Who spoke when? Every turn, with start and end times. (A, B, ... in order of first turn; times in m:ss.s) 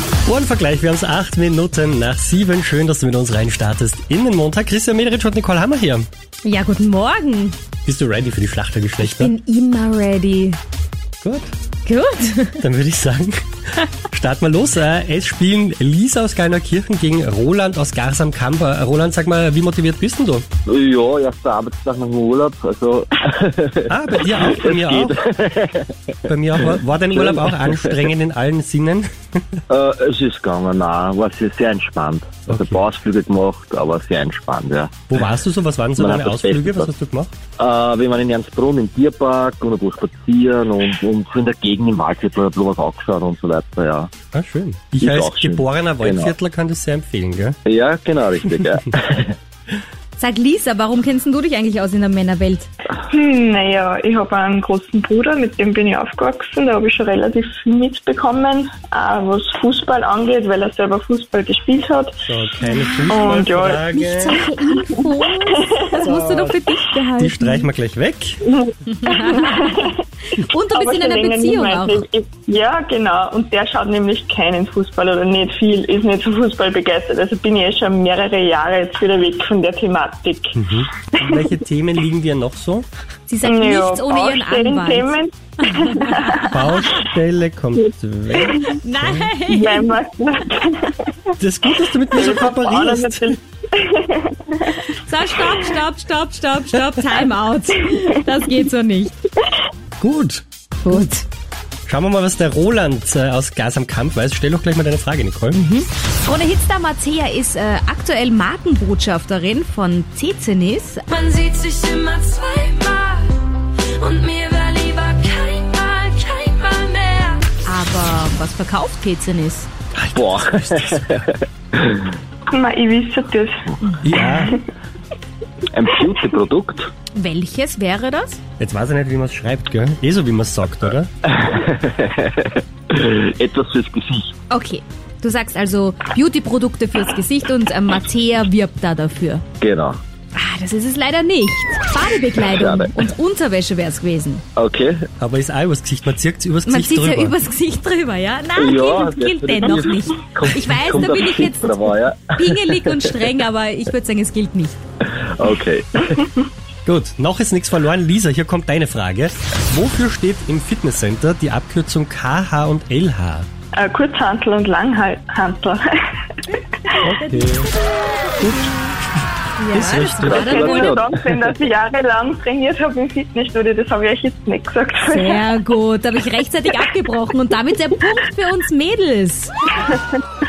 0:00.3-0:06.1 A
0:06.4-0:07.6 B
0:07.8-0:09.3 A
0:09.0-0:10.6 B
0:11.2-0:11.5 A
0:11.8-0:12.7 B
0:12.6-0:13.3 A
0:14.1-0:20.4 A
0:20.7-0:28.1 C
0:23.9-0:25.2 A
0:26.3-0:29.4 A
0:29.7-0:35.3 C
0:32.5-0:32.9 A
0:35.1-0:37.3 A
0:36.0-0:36.9 C
0:37.6-0:44.1 C
0:44.3-0:47.6 A
0:45.0-0:46.3 C
0:47.6-0:49.4 C
0:50.2-0:52.7 B
0:53.0-1:02.2 D
1:02.3-1:04.4 A
1:02.6-1:03.3 B
1:03.1-1:03.8 D
1:03.9-1:07.7 B
1:06.0-1:06.6 A
1:07.2-1:08.4 A
1:08.5-1:10.0 D
1:08.9-1:12.0 B
1:10.7-1:20.6 D
1:20.6-1:22.9 A
1:21.1-1:21.5 D
1:23.3-1:27.1 B
1:23.4-1:26.3 D
1:26.4-1:29.3 A
1:28.3-1:28.8 D
1:28.6-1:29.9 B
1:29.4-1:31.1 D
1:31.4-1:33.4 A
1:32.0-1:34.8 D
1:34.8-1:39.1 B
1:40.0-1:40.4 A
1:40.8-1:41.2 B
1:41.9-1:45.6 A
1:45.5-1:51.5 B
1:51.1-1:53.4 E
1:54.0-1:57.4 E
1:57.4-1:59.7 B
2:00.0-2:01.1 A
2:00.2-2:02.1 C
2:02.5-2:04.6 D
2:04.0-2:04.6 A
2:05.7-2:06.9 C
2:07.2-2:08.4 B
2:08.6-2:11.1 A
2:11.2-2:14.3 C
2:14.5-2:19.4 B
2:19.6-2:20.0 C
2:20.4-2:24.4 B
2:22.5-2:23.0 C
2:24.6-2:25.1 C
2:25.2-2:27.4 A
2:26.7-2:34.8 B
2:28.6-2:33.1 C
2:35.0-2:36.2 C
2:36.9-2:43.5 A
2:43.8-2:45.8 D
2:46.5-2:47.2 D
2:47.0-2:47.7 A
2:47.2-2:47.5 B
2:48.4-2:48.9 B
2:48.4-2:48.7 A
2:49.6-2:51.0 B
2:49.7-2:50.3 A
2:49.9-2:51.4 C
2:50.2-2:55.5 D
2:55.1-2:59.5 B